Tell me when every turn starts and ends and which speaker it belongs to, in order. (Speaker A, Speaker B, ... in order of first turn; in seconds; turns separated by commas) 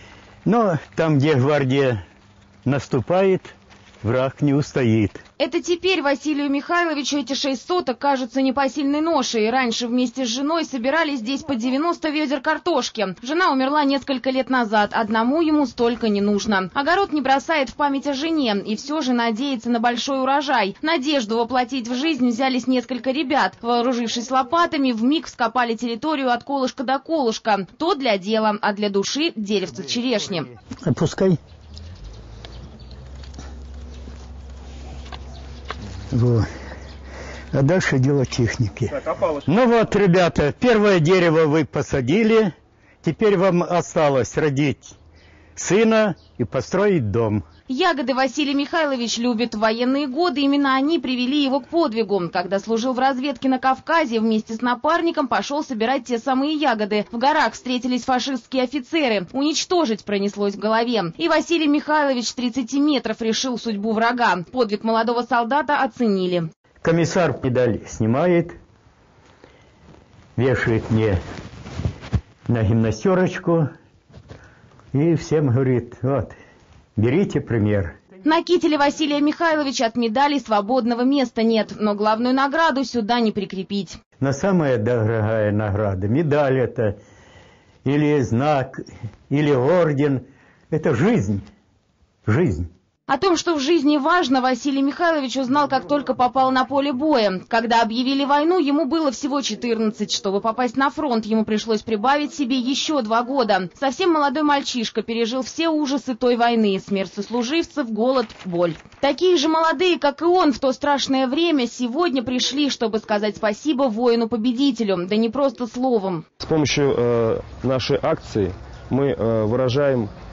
Speaker A: 0.4-2.0, Speaker A: 2.6-5.2, Speaker B: 5.4-30.5, Speaker A: 30.8-31.4, Speaker A: 36.1-36.5, Speaker A: 37.5-44.9, Speaker A: 45.5-47.4, Speaker B: 47.7-66.5, Speaker A: 66.8-68.5, Speaker A: 70.3-71.2, Speaker A: 72.5-73.7, Speaker A: 74.9-76.3, Speaker A: 77.0-77.9, Speaker B: 78.2-84.0, Speaker A: 84.2-87.0, Speaker A: 87.8-91.4, Speaker A: 92.2-92.7, Speaker B: 93.1-116.2, Speaker C: 116.4-120.1